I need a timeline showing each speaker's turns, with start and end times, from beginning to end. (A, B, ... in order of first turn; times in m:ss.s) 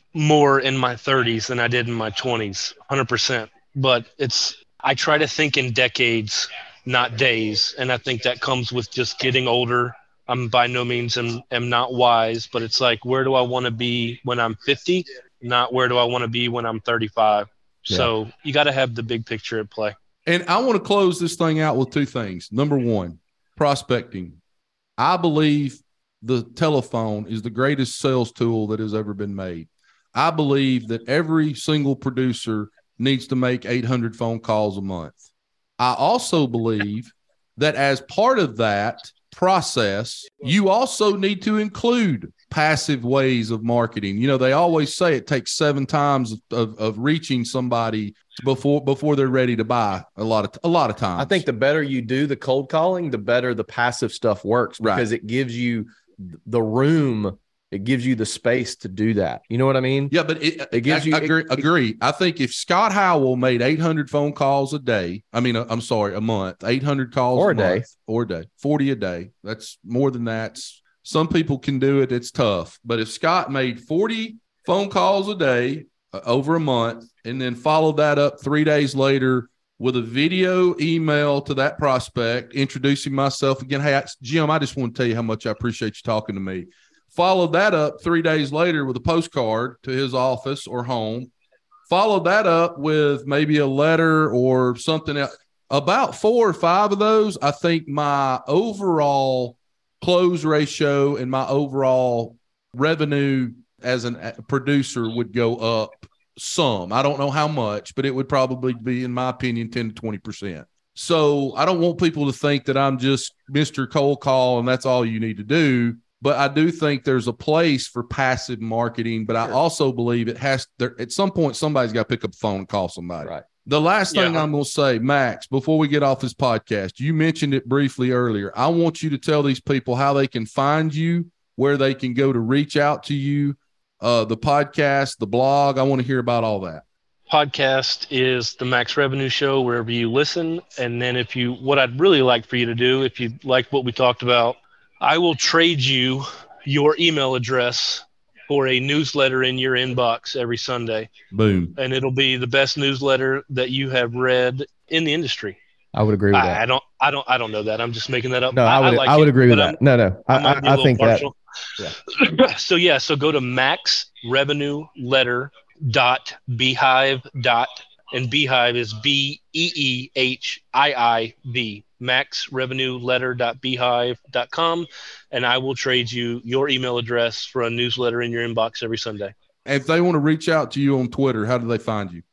0:00.1-0:20.0 A
0:20.3-0:24.4 B
0:25.0-0:35.2 B
0:35.8-0:51.4 B
0:51.2-1:00.1 C
0:54.8-0:55.1 B
1:00.1-1:31.3 B
1:00.7-1:01.7 C
1:07.4-1:07.9 C
1:31.9-2:16.8 B
2:04.1-2:04.5 A
2:17.3-2:31.1 A
2:31.3-2:31.8 B
2:31.8-2:35.6 A
2:36.0-2:36.6 C
2:36.3-2:39.8 A
2:38.5-2:42.0 C
2:40.3-2:41.4 A
2:42.1-2:59.3 A
2:59.7-3:02.2 B